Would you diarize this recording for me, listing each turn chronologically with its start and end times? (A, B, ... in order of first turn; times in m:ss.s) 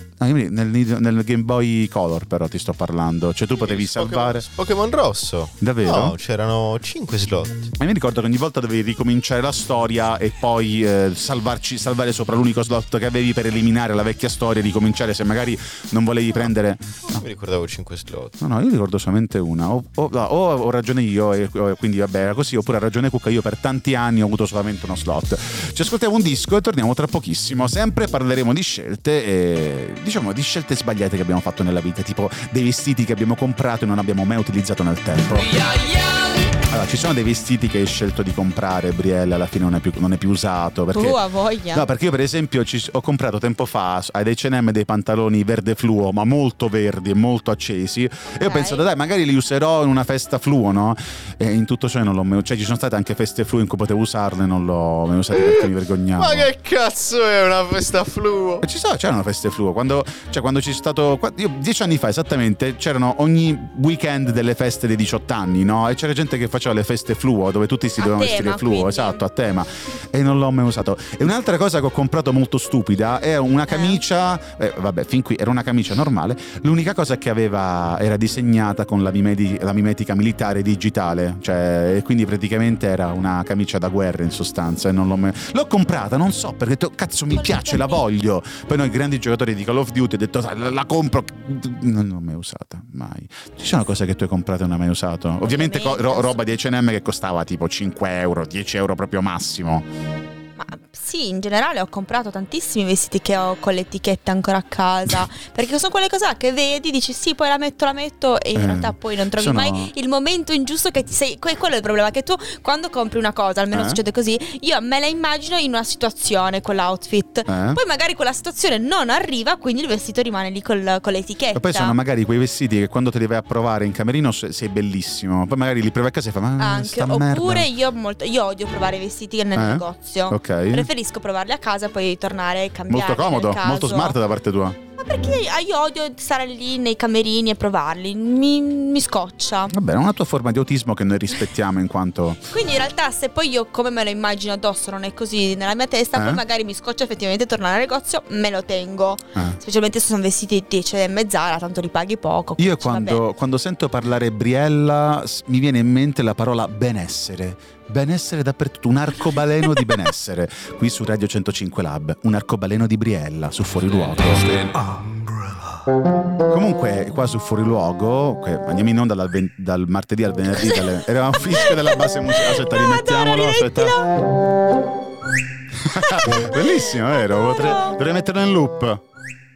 0:00.2-0:04.5 A
0:03.6-0:07.7 B
0:05.6-0:06.2 A
0:07.8-0:17.2 A
0:17.1-0:18.4 B
0:18.4-0:35.6 A
0:36.5-0:41.2 A
0:40.9-0:41.9 C
0:41.7-0:56.5 A
0:48.4-0:48.9 C
0:55.4-0:58.6 B
0:58.6-1:39.9 A
1:08.0-1:09.2 C
1:13.7-1:14.0 C
1:27.3-1:28.0 C
1:35.4-1:36.4 C
1:40.6-2:02.0 C
1:48.5-1:49.9 A
1:53.7-1:54.0 A
1:57.5-1:57.8 A
2:01.5-2:07.7 A
2:06.6-2:14.2 C
2:09.5-2:10.9 A
2:12.9-2:14.8 A
2:15.0-2:19.7 C
2:19.7-2:22.4 A
2:22.5-2:33.2 C
2:26.1-2:26.4 A
2:32.6-2:44.8 A
2:46.5-2:54.0 A
2:50.6-2:51.0 C
2:51.5-2:54.1 C
2:55.8-2:59.0 A
2:56.0-2:56.8 C
2:57.3-2:57.9 C